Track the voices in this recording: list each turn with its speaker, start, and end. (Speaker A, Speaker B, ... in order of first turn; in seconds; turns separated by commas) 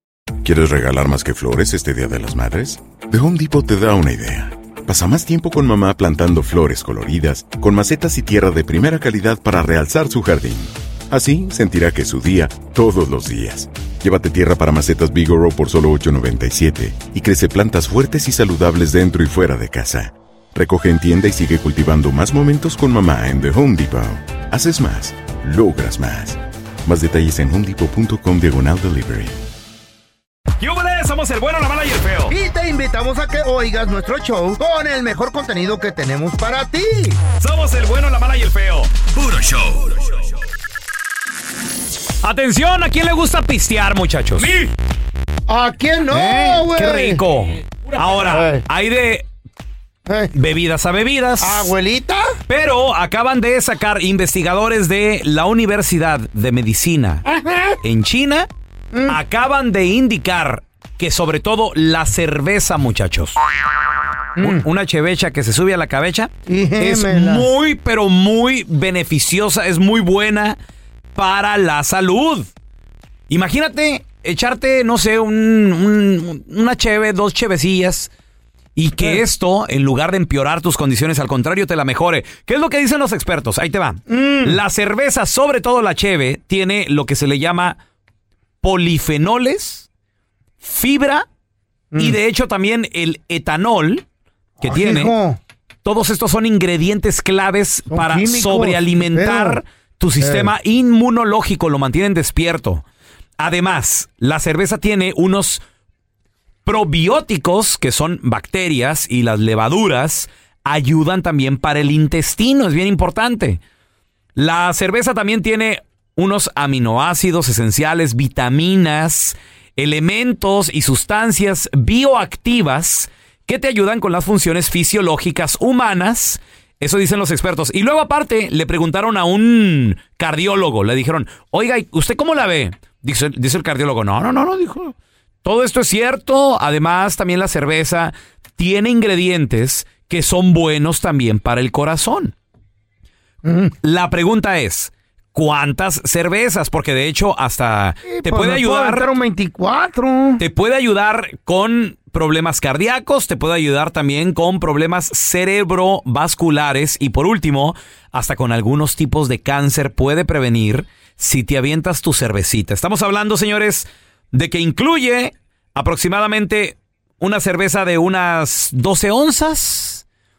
Speaker A: 0.4-29.4, Speaker B: 30.6-32.4, Speaker C: 32.3-37.2, Speaker B: 37.4-40.2, Speaker B: 42.2-44.5, Speaker C: 45.5-47.2, Speaker B: 46.1-49.3, Speaker C: 48.3-48.6, Speaker C: 50.1-50.3, Speaker B: 50.3-51.7, Speaker C: 51.4-52.3, Speaker B: 52.5-57.2, Speaker C: 57.2-57.8, Speaker B: 57.8-58.5, Speaker C: 58.9-59.2, Speaker B: 59.1-63.4, Speaker C: 64.4-64.7, Speaker B: 64.4-70.6, Speaker C: 66.5-67.5, Speaker B: 71.2-72.5, Speaker B: 73.3-78.1, Speaker B: 78.8-87.8, Speaker C: 84.1-84.6, Speaker B: 88.6-89.9, Speaker B: 90.6-91.3, Speaker C: 91.9-92.2, Speaker B: 92.0-94.0, Speaker B: 94.6-95.1, Speaker C: 94.6-95.4, Speaker B: 95.8-102.8, Speaker C: 97.9-99.6, Speaker C: 100.2-100.5, Speaker B: 103.4-105.6, Speaker B: 106.7-113.6, Speaker B: 114.4-142.3, Speaker C: 143.4-143.7, Speaker B: 143.8-149.1, Speaker C: 148.1-150.4, Speaker B: 150.4-170.0